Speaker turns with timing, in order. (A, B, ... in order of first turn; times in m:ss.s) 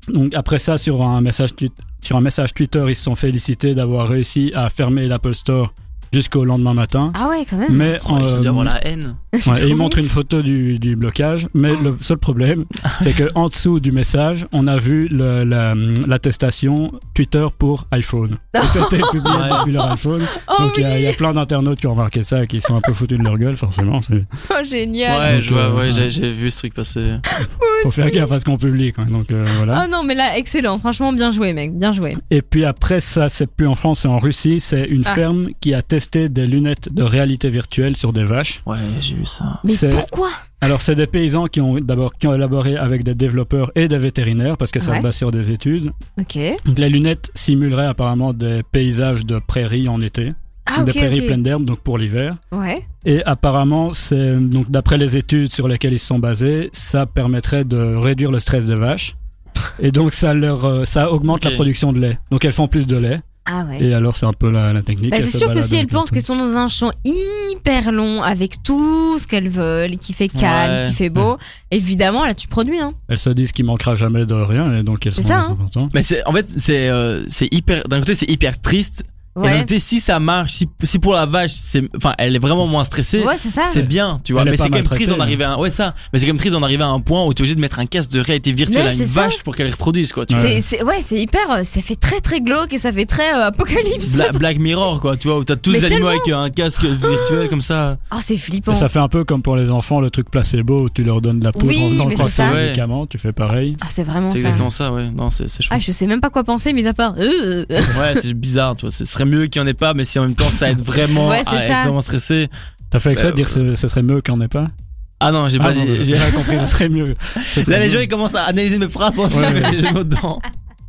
0:00.1-0:07.2 A
0:07.1-0:07.9 B
0:07.7-0:08.7 A
0:08.0-0:09.2 C
0:09.3-0:10.0 B
0:09.4-0:24.3 A
0:18.5-0:21.2 B
0:19.3-0:19.6 C
0:24.5-0:25.3 B
0:25.1-0:27.2 C
0:25.3-0:26.1 A
0:27.3-0:28.3 B
0:27.8-0:29.8 A
0:29.7-0:32.2 B
0:32.3-0:38.6 A
0:38.6-0:39.6 C
0:39.6-0:40.4 B
0:39.7-0:40.1 A
0:40.6-0:45.9 A
0:44.8-0:45.1 B
0:46.2-0:46.6 B
0:46.7-0:52.4 A
0:50.7-0:51.4 B
0:52.5-0:52.8 B
0:53.0-0:59.1 A
0:59.8-1:03.2 A
1:01.3-1:01.6 C
1:03.5-1:03.9 B
1:03.8-1:06.2 A
1:05.1-1:12.9 B
1:10.3-1:11.0 C
1:13.1-1:15.9 A
1:15.2-1:15.6 B
1:15.9-1:30.5 C
1:19.3-1:19.7 B
1:23.2-1:23.8 B
1:23.7-1:25.4 A
1:28.7-1:29.4 B
1:30.3-1:30.6 A
1:30.3-1:34.4 B
1:34.0-1:38.0 C
1:35.7-1:36.3 B
1:37.0-1:37.5 B
1:38.1-1:38.9 B
1:38.7-1:43.8 A
1:41.5-1:42.6 B
1:42.1-1:42.8 C
1:43.8-1:44.7 B
1:44.3-1:45.8 C
1:45.7-1:48.0 B
1:47.9-1:52.5 C
1:51.2-1:51.9 B
1:52.9-1:54.7 A
1:53.1-1:53.6 C
1:55.2-1:56.7 C
1:55.6-1:58.1 A
1:57.4-2:00.4 C
1:59.3-1:59.8 A